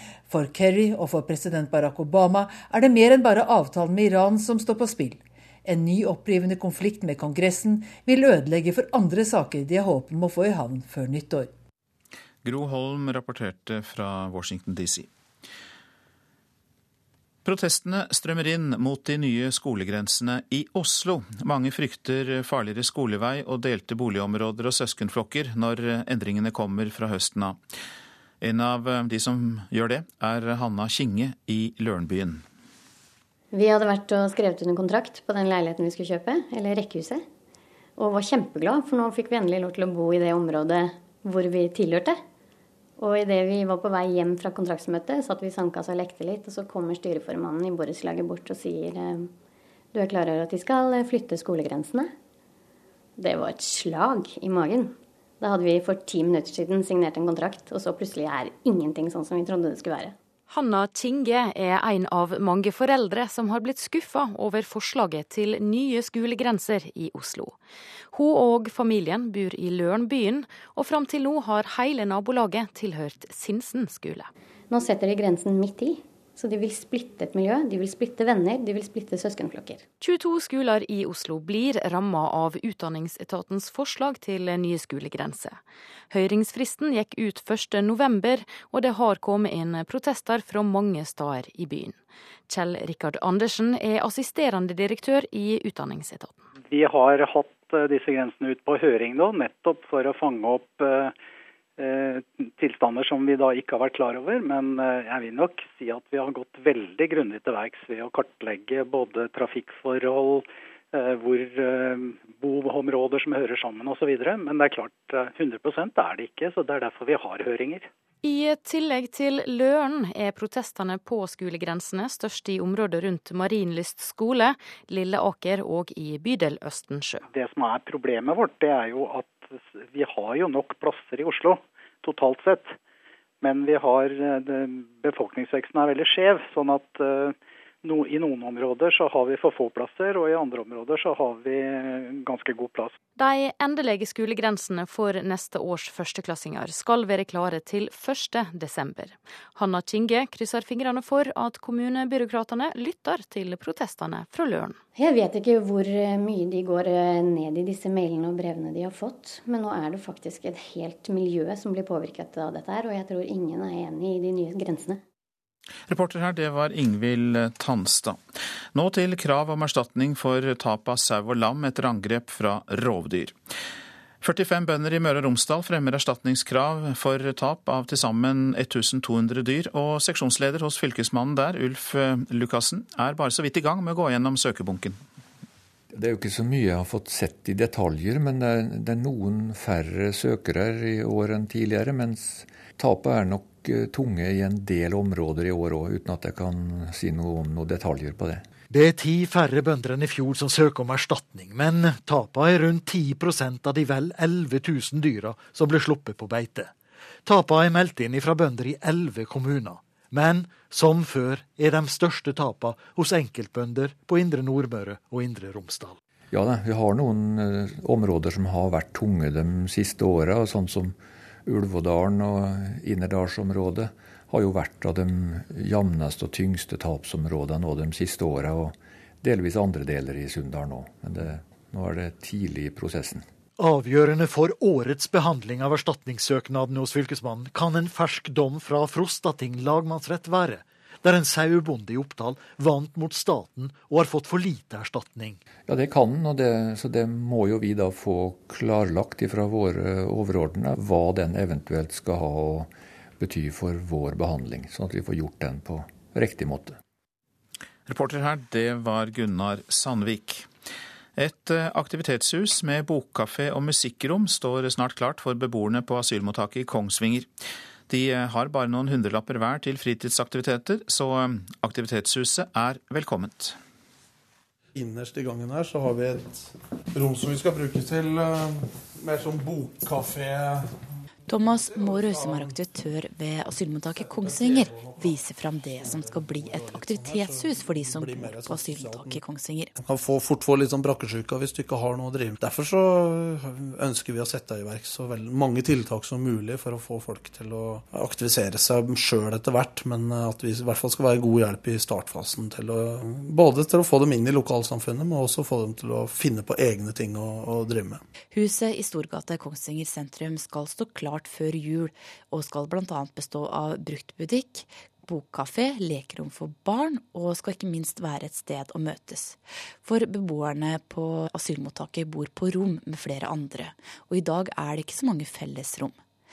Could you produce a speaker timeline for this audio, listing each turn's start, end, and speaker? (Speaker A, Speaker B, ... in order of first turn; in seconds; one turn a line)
Speaker A: 0.3-11.5
Speaker B: 12.4-15.1
Speaker B: 17.4-27.6
Speaker B: 28.4-32.4
Speaker C: 33.5-37.2
Speaker C: 38.0-42.2
Speaker C: 43.0-49.3
Speaker C: 49.9-52.1
Speaker C: 53.2-60.1
Speaker D: 60.5-67.6
Speaker D: 68.1-74.3
Speaker C: 74.7-79.8
Speaker D: 80.0-96.4
Speaker E: 96.7-101.1
Speaker E: 101.8-117.9
Speaker D: 118.2-127.2
Speaker E: 127.3-132.8
Speaker E: 133.4-142.9
Speaker D: 143.2-154.8
Speaker C: 154.9-165.0
Speaker B: 165.9-168.2
Speaker B: 168.7-173.3
Speaker B: 174.2-185.0
Speaker F: 185.9-198.4
Speaker G: 198.7-206.7
Speaker G: 207.2-216.0
Speaker F: 216.3-233.3
Speaker G: 233.6-245.4
Speaker F: 245.7-256.8
Speaker B: 257.9-260.5
Speaker B: 261.1-267.3
Speaker B: 267.9-273.6
Speaker H: 274.8-280.5
Speaker I: 281.3-289.7
Speaker H: 281.7-282.5
Speaker H: 284.1-285.1
Speaker H: 285.8-289.2
Speaker H: 289.8-308.0
Speaker I: 308.3-326.0